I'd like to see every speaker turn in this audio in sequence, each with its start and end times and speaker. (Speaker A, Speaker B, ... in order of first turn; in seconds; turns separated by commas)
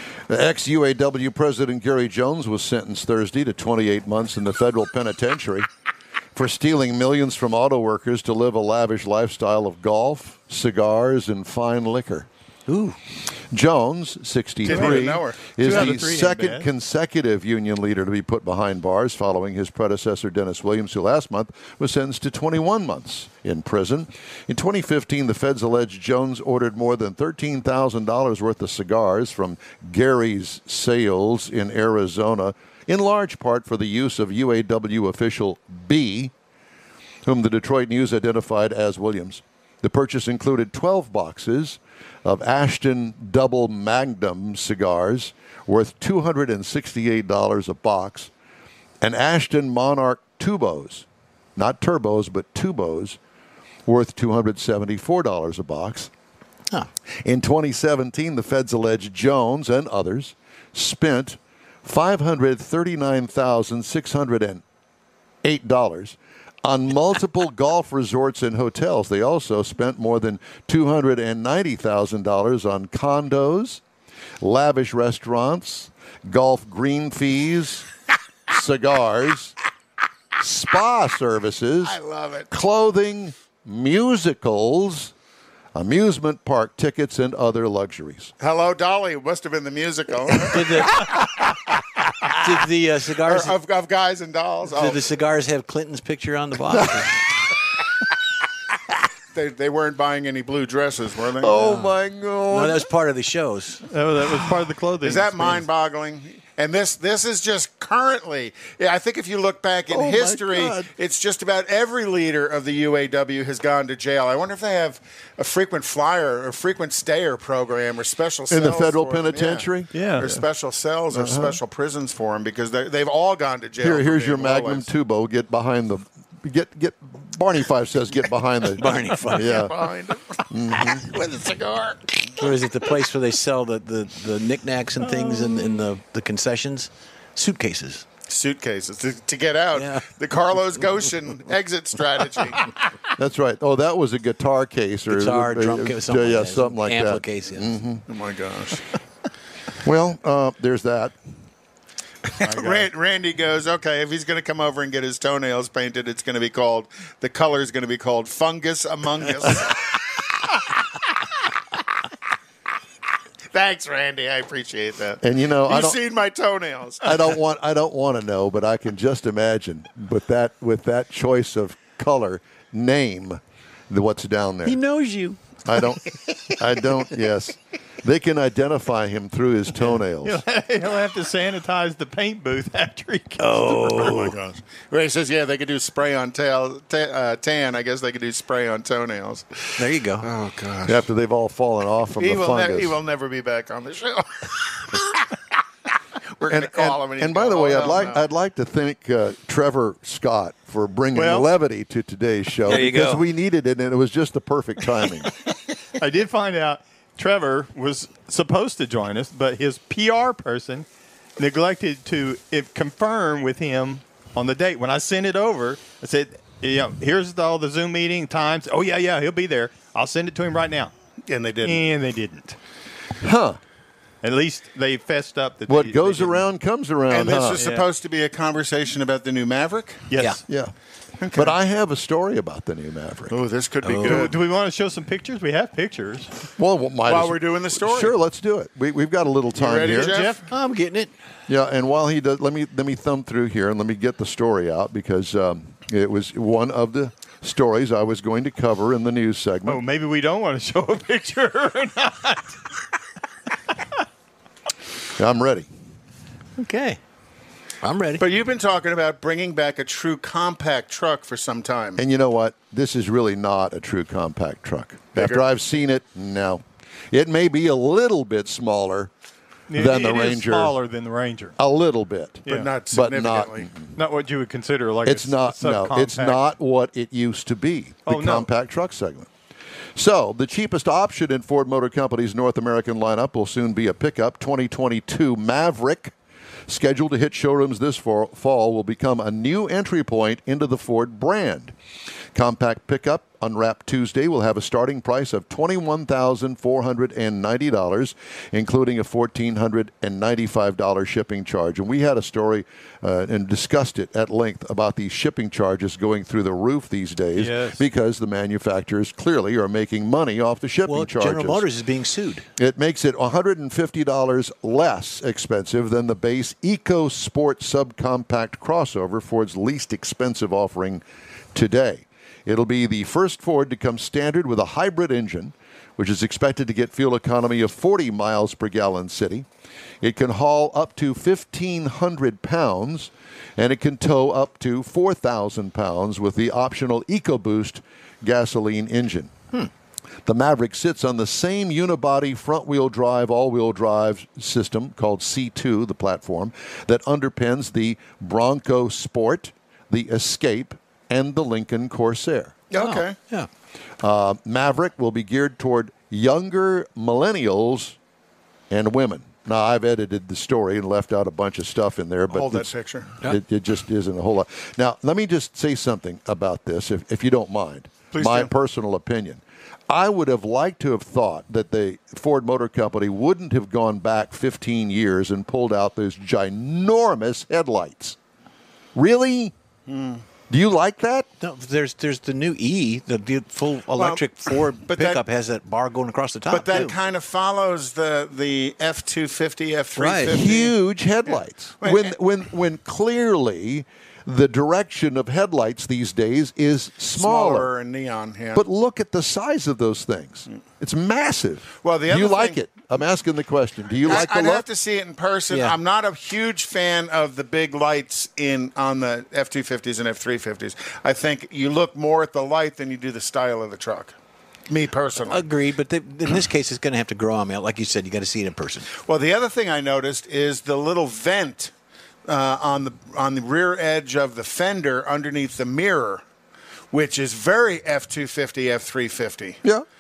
Speaker A: 0.3-5.7, Speaker A: 6.3-12.3, Speaker B: 12.7-13.0, Speaker A: 13.5-36.3, Speaker C: 14.6-15.7, Speaker D: 14.7-16.7, Speaker A: 37.2-48.3, Speaker A: 49.0-53.2, Speaker A: 53.9-56.1, Speaker A: 57.2-64.6, Speaker A: 65.4-73.8, Speaker A: 74.4-77.9, Speaker A: 78.5-79.5, Speaker A: 80.4-82.0, Speaker C: 81.8-82.5, Speaker A: 82.5-85.1, Speaker A: 85.8-88.3, Speaker C: 88.4-91.0, Speaker B: 90.4-91.2, Speaker B: 92.3-93.6, Speaker C: 93.2-95.0, Speaker B: 94.7-97.2, Speaker A: 96.7-97.1, Speaker C: 99.3-101.8, Speaker A: 101.4-102.8, Speaker B: 101.6-101.9, Speaker B: 102.5-103.8, Speaker D: 103.9-105.7, Speaker C: 105.0-124.9, Speaker A: 109.9-110.9, Speaker A: 118.5-120.4, Speaker D: 119.9-120.3, Speaker A: 121.1-121.6, Speaker A: 123.8-129.8, Speaker B: 128.8-129.7, Speaker C: 129.3-132.5, Speaker A: 130.5-131.1, Speaker B: 132.3-138.1, Speaker D: 135.1-135.7, Speaker C: 138.3-142.7, Speaker B: 139.8-140.1, Speaker A: 143.2-148.1, Speaker B: 145.1-147.8, Speaker C: 148.1-148.8, Speaker A: 149.8-151.2, Speaker C: 152.3-160.6, Speaker D: 152.4-152.9, Speaker C: 163.5-167.2, Speaker A: 165.2-166.0, Speaker A: 167.0-174.8, Speaker B: 174.7-175.4, Speaker A: 175.7-180.4, Speaker D: 180.2-184.1, Speaker B: 183.4-184.3, Speaker C: 183.8-191.1, Speaker B: 189.8-190.3, Speaker A: 190.9-193.0, Speaker C: 192.2-195.2, Speaker C: 196.4-198.2, Speaker A: 196.5-205.3, Speaker D: 201.1-201.5, Speaker D: 202.7-203.2, Speaker B: 202.7-203.2, Speaker D: 205.9-210.9, Speaker D: 211.4-220.9, Speaker C: 221.3-221.8, Speaker D: 221.6-222.6, Speaker A: 223.2-223.6, Speaker D: 224.2-226.4, Speaker A: 225.7-227.6, Speaker C: 227.1-230.1, Speaker D: 227.5-227.8, Speaker D: 230.1-230.4, Speaker A: 230.5-230.7, Speaker C: 231.2-231.6, Speaker A: 231.3-233.4, Speaker C: 233.3-234.4, Speaker B: 233.8-234.3, Speaker D: 234.0-236.3, Speaker A: 236.6-240.2, Speaker C: 237.1-238.1, Speaker C: 239.5-240.4, Speaker D: 239.9-240.4, Speaker B: 240.5-241.1, Speaker A: 241.5-249.8, Speaker D: 249.7-252.6, Speaker A: 255.2-255.7, Speaker B: 256.6-257.0, Speaker B: 257.8-258.2, Speaker C: 258.2-262.0, Speaker A: 262.0-269.1, Speaker C: 265.1-265.4, Speaker D: 269.7-271.6, Speaker A: 269.7-270.8, Speaker A: 271.6-273.9, Speaker D: 272.5-272.7, Speaker C: 272.5-273.7, Speaker D: 274.0-276.4, Speaker A: 275.1-279.3, Speaker D: 278.1-278.5, Speaker A: 279.9-286.1, Speaker A: 286.7-291.7, Speaker A: 292.4-311.7, Speaker D: 307.4-307.8, Speaker B: 310.9-312.5, Speaker A: 312.6-329.5, Speaker A: 330.0-339.3, Speaker A: 340.3-352.6, Speaker C: 352.7-353.2, Speaker B: 352.7-353.5, Speaker A: 354.0-358.0, Speaker A: 358.7-362.7, Speaker C: 362.3-363.1, Speaker A: 363.2-378.2, Speaker C: 368.1-368.5, Speaker A: 378.9-379.5, Speaker C: 379.9-380.2, Speaker A: 380.5-381.3, Speaker B: 381.4-387.0, Speaker C: 384.0-385.2, Speaker C: 386.5-390.7, Speaker B: 390.0-390.4, Speaker A: 390.3-397.7, Speaker C: 391.8-392.1, Speaker C: 397.2-398.6, Speaker A: 398.6-404.6, Speaker C: 401.8-402.6, Speaker C: 404.0-414.1, Speaker B: 405.5-405.8, Speaker C: 414.7-415.5, Speaker B: 415.2-418.9, Speaker C: 419.0-421.7, Speaker C: 422.3-426.2, Speaker C: 426.9-429.6